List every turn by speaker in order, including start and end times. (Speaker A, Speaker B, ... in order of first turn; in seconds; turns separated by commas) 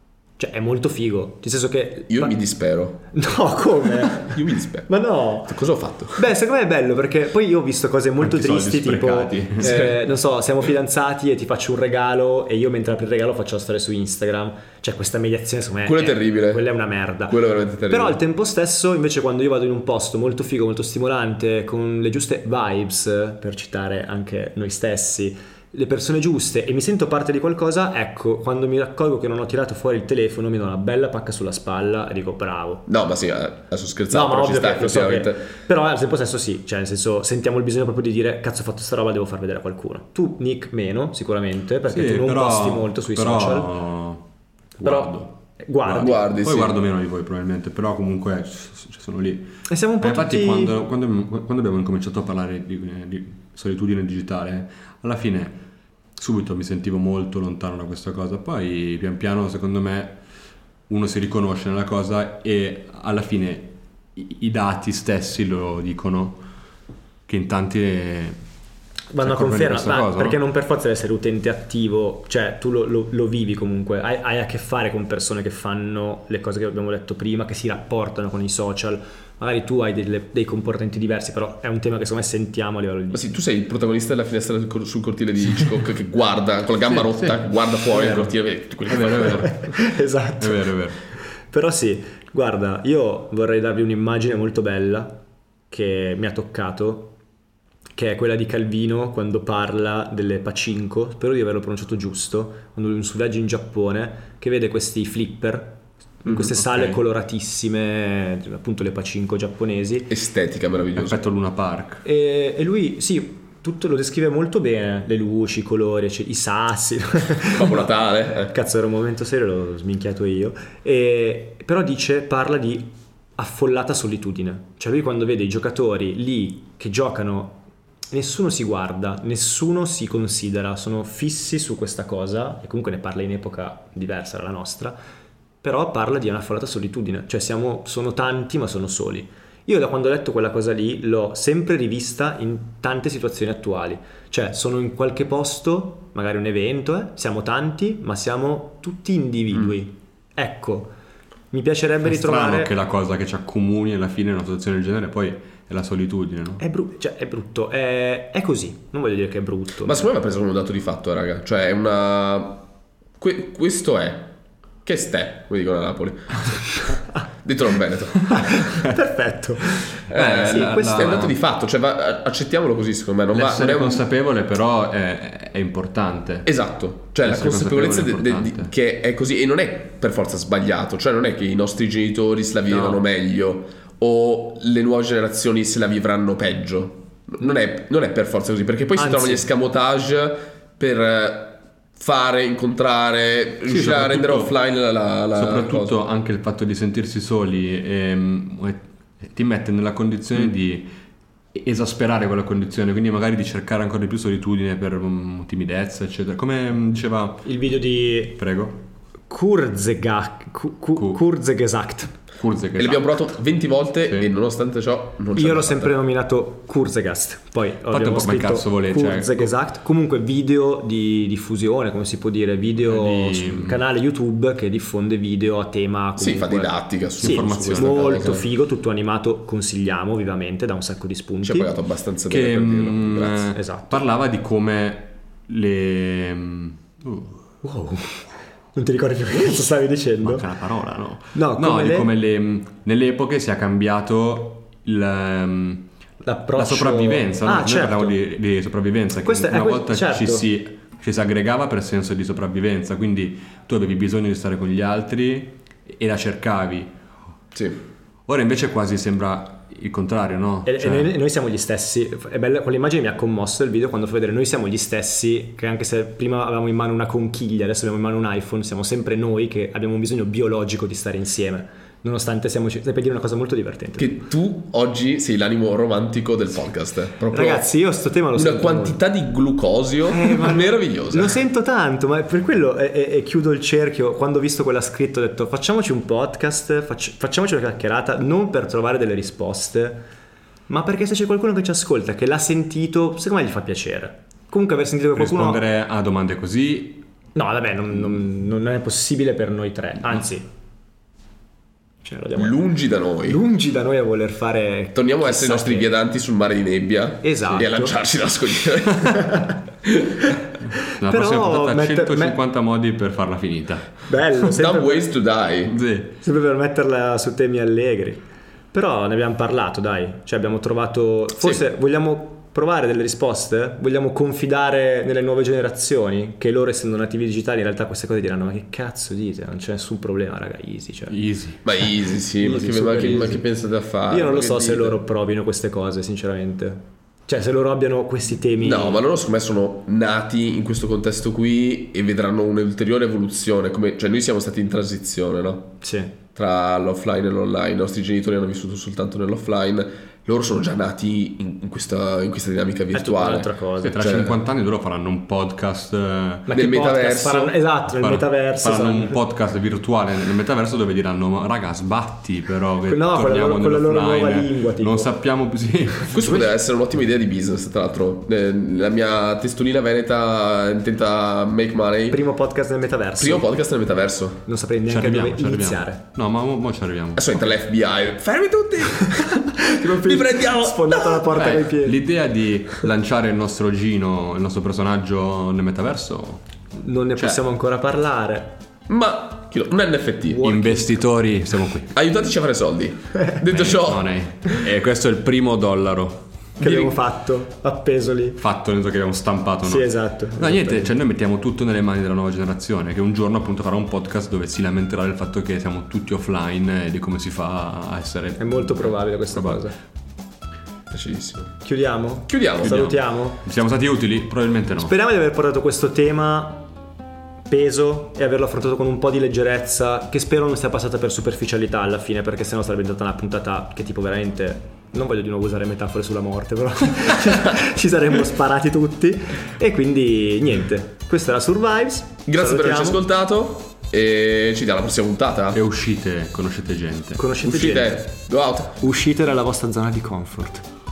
Speaker A: 0.4-2.3, Speaker B: 2.1-3.0, Speaker A: 3.1-32.9, Speaker B: 4.0-4.9, Speaker B: 5.5-6.3, Speaker C: 8.2-9.8, Speaker B: 9.6-10.0, Speaker B: 15.8-16.7, Speaker B: 17.3-18.2, Speaker B: 32.9-35.5, Speaker A: 34.1-43.7, Speaker C: 41.9-44.2, Speaker C: 44.8-55.6, Speaker A: 45.6-46.3, Speaker B: 45.9-46.8, Speaker A: 49.7-50.8, Speaker C: 56.1-60.2, Speaker C: 60.9-66.4, Speaker C: 67.3-68.4, Speaker A: 69.1-83.3, Speaker C: 69.2-70.4, Speaker B: 83.1-89.5, Speaker C: 86.9-87.4, Speaker C: 88.0-88.3, Speaker C: 88.9-89.8, Speaker A: 89.2-90.8, Speaker C: 90.4-91.0, Speaker A: 91.5-97.1, Speaker A: 98.0-110.1, Speaker C: 106.4-107.0, Speaker B: 110.1-111.2, Speaker C: 111.0-112.0, Speaker A: 112.0-135.0, Speaker B: 117.5-118.5, Speaker A: 135.6-150.9, Speaker A: 151.5-152.7, Speaker C: 152.0-156.6, Speaker A: 156.6-160.1, Speaker B: 159.8-162.6, Speaker B: 163.2-164.3, Speaker B: 164.8-168.7, Speaker A: 168.3-171.2, Speaker B: 170.1-174.0, Speaker C: 170.1-171.4, Speaker C: 173.3-176.5, Speaker B: 176.4-195.9, Speaker C: 177.2-178.7, Speaker C: 182.7-183.0, Speaker A: 188.9-189.5, Speaker C: 193.7-194.5, Speaker C: 195.3-200.9, Speaker C: 201.5-207.6, Speaker A: 207.4-208.4, Speaker C: 208.3-208.8, Speaker A: 209.3-212.2, Speaker C: 210.9-211.2, Speaker C: 212.4-213.3, Speaker B: 212.7-215.9, Speaker C: 214.0-214.3, Speaker A: 215.3-231.7, Speaker C: 217.9-219.5, Speaker C: 222.8-223.8, Speaker B: 226.2-228.4, Speaker C: 227.2-228.3, Speaker B: 231.4-233.6, Speaker C: 232.3-237.4, Speaker A: 233.5-234.0, Speaker A: 237.6-240.4, Speaker C: 240.2-245.8, Speaker A: 241.3-242.1, Speaker A: 246.2-248.2, Speaker C: 246.6-256.9, Speaker A: 249.2-250.5, Speaker C: 258.3-261.1, Speaker A: 260.6-274.2, Speaker B: 274.0-277.7, Speaker A: 277.3-279.0, Speaker B: 278.3-281.4, Speaker A: 280.1-290.0, Speaker A: 290.7-295.6, Speaker C: 295.1-297.0, Speaker A: 297.3-300.5, Speaker A: 302.0-302.6, Speaker B: 302.3-303.4, Speaker A: 303.2-305.9, Speaker B: 304.9-310.3, Speaker A: 307.2-307.9, Speaker A: 309.1-309.6, Speaker A: 310.8-312.4, Speaker C: 310.9-314.0, Speaker A: 314.1-315.1, Speaker B: 314.5-315.8, Speaker C: 315.7-316.2, Speaker A: 316.2-331.2, Speaker C: 331.1-331.9, Speaker B: 331.6-335.0, Speaker A: 332.4-333.4, Speaker C: 332.4-333.4, Speaker A: 334.1-339.0, Speaker B: 338.6-345.8, Speaker A: 345.8-346.1, Speaker B: 346.3-354.4, Speaker A: 352.9-354.1, Speaker C: 353.8-356.5, Speaker A: 356.5-359.2, Speaker B: 356.5-357.6, Speaker C: 357.9-366.5, Speaker A: 362.9-365.1, Speaker B: 366.1-372.2, Speaker A: 372.1-373.5, Speaker B: 373.2-374.4, Speaker A: 374.4-376.0, Speaker C: 374.9-377.4, Speaker B: 377.1-381.2, Speaker A: 379.0-382.0, Speaker C: 381.3-386.4, Speaker A: 386.7-388.6, Speaker C: 387.1-387.4, Speaker B: 388.9-390.5, Speaker A: 390.3-391.0, Speaker C: 390.4-391.9, Speaker B: 391.9-394.5, Speaker C: 393.4-396.3, Speaker A: 396.6-398.4, Speaker B: 396.6-397.0, Speaker C: 398.4-409.6, Speaker A: 399.6-400.9, Speaker A: 408.4-409.8, Speaker B: 410.9-411.6, Speaker A: 411.6-413.4, Speaker B: 412.3-412.8, Speaker C: 412.6-414.9, Speaker A: 414.8-416.7, Speaker A: 417.5-433.0, Speaker B: 432.3-435.6, Speaker C: 435.5-437.2, Speaker A: 437.2-438.0, Speaker B: 437.4-438.8, Speaker A: 438.8-440.6